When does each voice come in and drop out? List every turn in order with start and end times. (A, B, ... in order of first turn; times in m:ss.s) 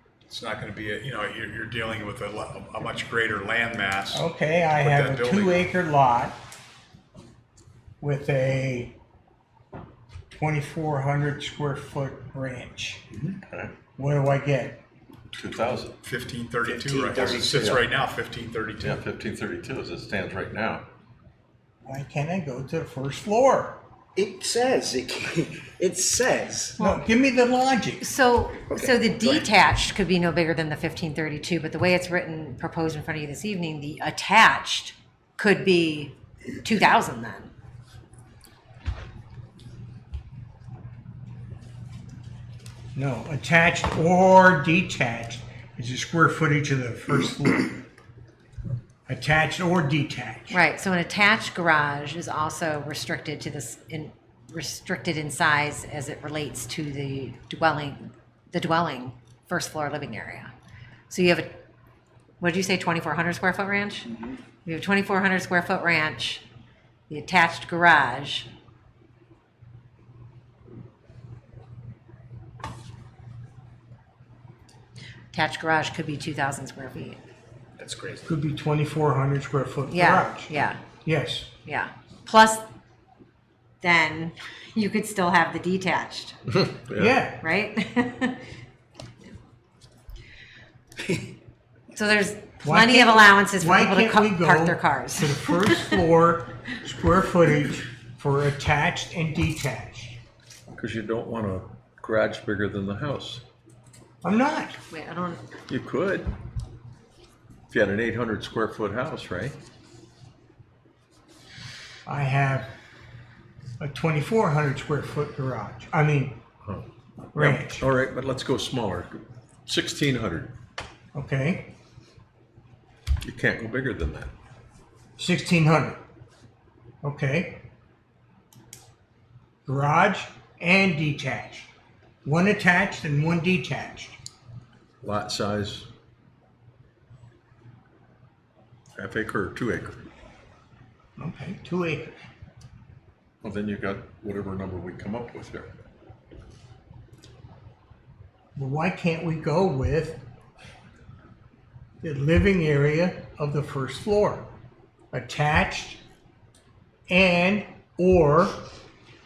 0:00.3-0:05.7 A
0:04.1-0:06.4 B
0:08.0-0:08.9 B
0:10.3-0:13.0 B
0:14.0-0:14.8 B
0:15.4-0:16.0 C
0:16.0-0:19.0 A
0:16.6-0:17.7 D
0:17.1-0:17.8 C
0:18.8-0:20.8 C
0:21.8-0:23.8 B
0:24.2-0:26.8 D
0:26.8-0:28.0 B
0:28.0-0:37.5 E
0:28.7-0:29.4 D
0:42.9-0:47.8 B
0:49.1-0:50.6 B
0:50.5-1:00.5 E
1:01.1-1:01.6 E
1:02.4-1:06.4 E
1:07.1-1:08.5 E
1:15.3-1:17.2 E
1:17.8-1:18.3 A
1:18.2-1:20.5 B
1:19.9-1:20.8 E
1:21.0-1:21.5 B
1:21.6-1:22.6 E
1:23.8-1:26.4 E
1:26.5-1:27.2 C
1:27.0-1:27.4 B
1:27.4-1:28.4 E
1:31.9-1:36.0 E
1:32.6-1:40.2 B
1:40.7-1:43.4 C
1:44.2-1:44.8 B
1:44.9-1:45.4 E
1:45.7-1:46.3 C
1:47.7-1:49.5 C
1:52.0-1:52.7 B
1:53.8-1:56.4 B
1:56.6-2:00.5 C
1:57.3-1:57.8 B
2:01.1-2:01.7 B
2:03.2-2:04.3 C
2:05.2-2:06.0 B
2:07.0-2:07.6 B
2:09.6-2:11.7 B
2:12.2-2:14.2 B
2:15.0-2:15.9 C
2:19.0-2:20.0 C
2:21.2-2:22.2 B
2:23.4-2:25.7 C
2:28.6-2:30.2 B
2:32.0-2:34.5 B
2:35.1-2:36.0 B
2:37.1-2:38.6 B